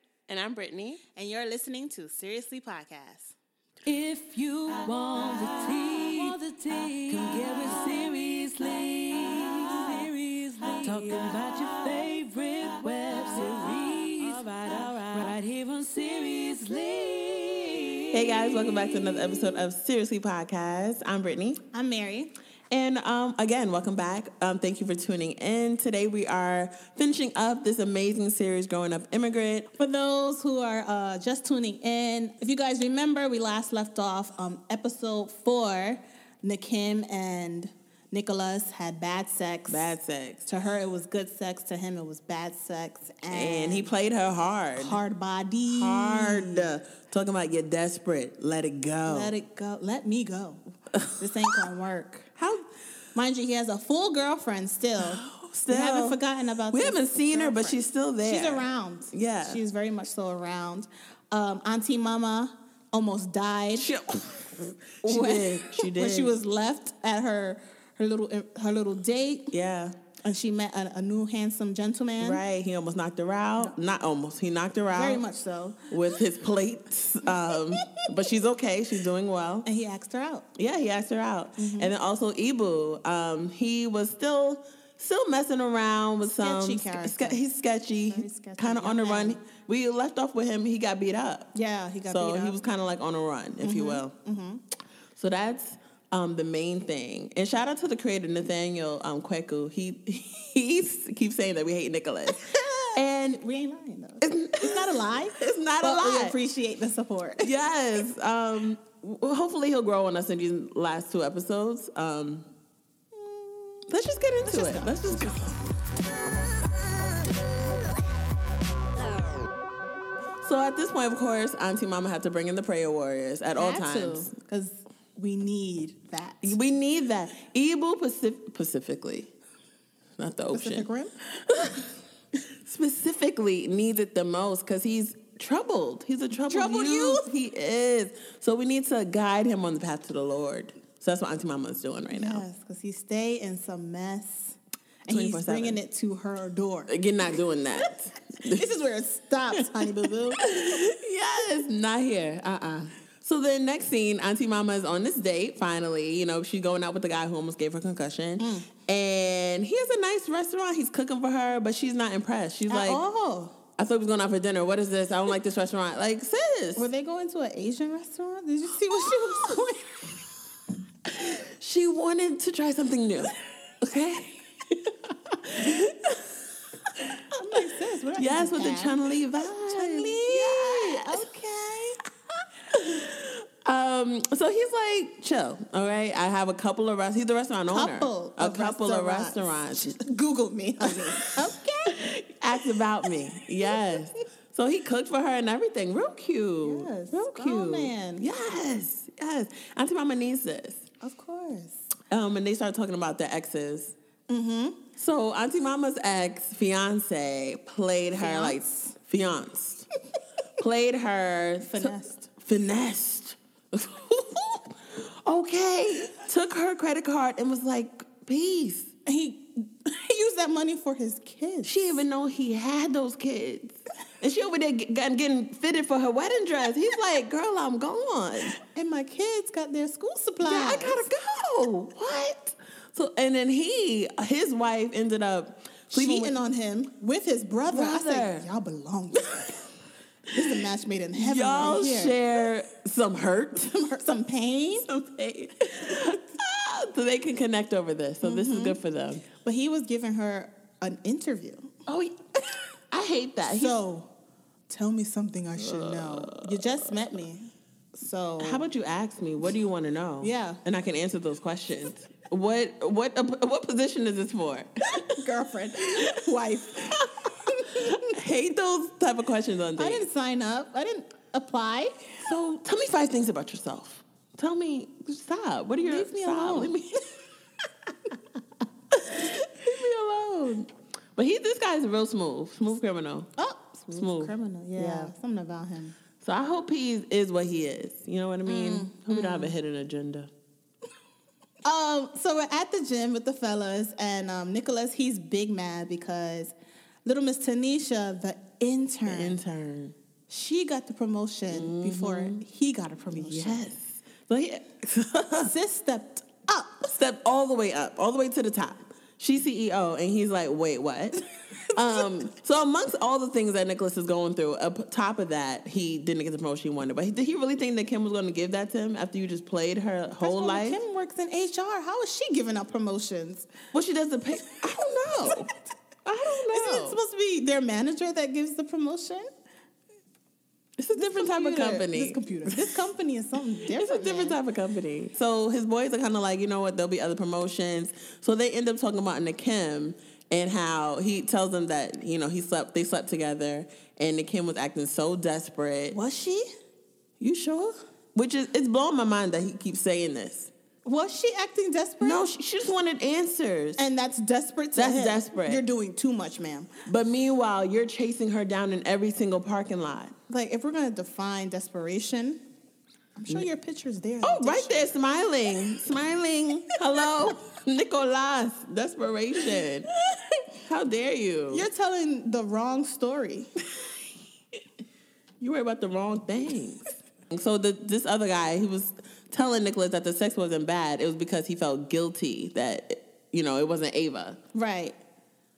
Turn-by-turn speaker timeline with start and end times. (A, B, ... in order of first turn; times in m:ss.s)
0:00.3-0:01.0 A
0:01.2-0:03.3 B
0:03.8-0:18.7 C
0:18.1-0:21.6 A
0:21.7-0:22.3 B
0:22.7-0:29.7 A
0:29.8-0:39.9 B
0:39.7-0:40.4 A
0:40.4-0:43.9 B
0:43.3-0:45.0 A
0:44.8-0:46.7 B
0:45.7-0:49.3 A
0:49.0-0:50.6 B
0:51.2-0:52.3 B
0:52.4-0:52.6 A
0:53.1-1:03.9 B
0:55.0-0:56.2 A
0:56.7-0:59.6 A
1:03.7-1:06.3 A
1:05.0-1:09.5 B
1:09.5-1:09.9 A
1:10.2-1:12.4 B
1:12.2-1:15.2 A
1:14.9-1:15.9 B
1:15.9-1:19.6 A
1:17.5-1:18.0 B
1:19.6-1:20.4 B
1:20.6-1:31.5 A
1:21.6-1:21.9 B
1:26.4-1:27.4 B
1:28.1-1:29.4 B
1:31.5-1:32.6 B
1:32.0-1:34.1 A
1:33.6-1:34.6 B
1:35.2-1:43.4 A
1:42.3-1:47.5 B
1:44.2-1:46.4 A
1:47.4-1:52.5 A
1:53.1-1:53.8 B
1:53.9-1:55.6 A
1:54.4-1:55.6 B
2:00.4-2:04.3 A
2:03.6-2:06.6 B
2:06.4-2:09.3 A
2:10.2-2:10.9 A
2:10.5-2:11.1 B
2:11.4-2:11.9 A
2:12.6-2:22.4 A
2:16.3-2:17.2 B
2:22.1-2:26.9 B
2:25.1-2:25.8 A
2:26.9-2:28.6 A
2:28.5-2:30.5 B
2:29.8-2:43.0 A
2:38.4-2:38.7 B
2:42.7-2:43.5 B
2:43.8-2:46.8 A
2:46.8-2:50.0 B
2:51.1-2:54.4 A
2:55.5-2:56.3 A
2:57.3-3:02.0 B
2:58.2-3:01.2 A
3:02.7-3:10.0 A
3:07.7-3:12.0 B
3:11.1-3:20.8 A
3:13.7-3:13.9 B
3:16.6-3:18.2 B
3:21.0-3:21.8 B
3:22.1-3:23.9 A
3:24.3-3:24.8 B
3:25.0-3:29.9 A
3:28.2-3:28.9 B
3:30.6-3:38.9 A
3:31.6-3:32.3 B
3:39.0-3:42.0 B
3:41.6-3:48.6 A
3:48.7-3:51.0 B
3:50.4-3:56.3 A
3:55.9-3:59.3 B
3:57.7-3:58.4 A
3:59.2-3:59.6 A
4:00.3-4:02.2 B
4:01.2-4:03.7 A
4:03.7-4:04.8 B
4:04.9-4:09.2 A
4:08.2-4:08.8 B
4:09.4-4:11.7 B
4:11.9-4:12.2 A
4:12.9-4:13.8 A
4:13.5-4:14.1 B
4:14.7-4:18.6 B
4:15.6-4:17.1 A
4:18.4-4:25.2 A
4:20.2-4:20.6 B
4:24.9-4:28.1 B
4:27.7-4:30.0 A
4:29.8-4:32.0 B
4:32.2-4:37.0 A
4:35.8-4:36.7 B
4:38.9-4:40.6 A
4:40.0-4:40.6 B
4:41.2-4:43.3 A
4:43.4-4:45.9 B
4:44.0-4:45.1 A
4:46.2-4:50.3 A
4:48.5-4:49.5 B
4:51.6-4:56.5 B
4:57.0-4:59.4 B
4:59.0-4:59.9 A
5:00.3-5:03.6 B
5:01.5-5:02.4 A
5:03.1-5:05.5 A
5:05.4-5:06.9 B
5:06.9-5:11.2 A
5:11.7-5:20.8 A
5:20.2-5:23.5 B
5:23.7-5:25.5 A
5:26.0-5:27.0 A
5:26.5-5:29.3 B
5:30.8-5:32.7 A
5:31.0-5:34.4 B
5:33.7-5:46.0 A
5:45.9-5:46.5 B
5:47.2-5:50.5 A
5:50.8-5:52.3 B
5:52.0-5:53.8 A
5:53.8-5:56.7 B
5:54.7-5:55.6 A
5:56.8-6:00.1 A
6:00.3-6:02.4 B
6:03.2-6:05.0 B
6:04.2-6:09.9 A
6:10.6-6:11.7 A
6:11.5-6:13.5 B
6:15.4-6:24.4 A
6:24.5-6:25.0 B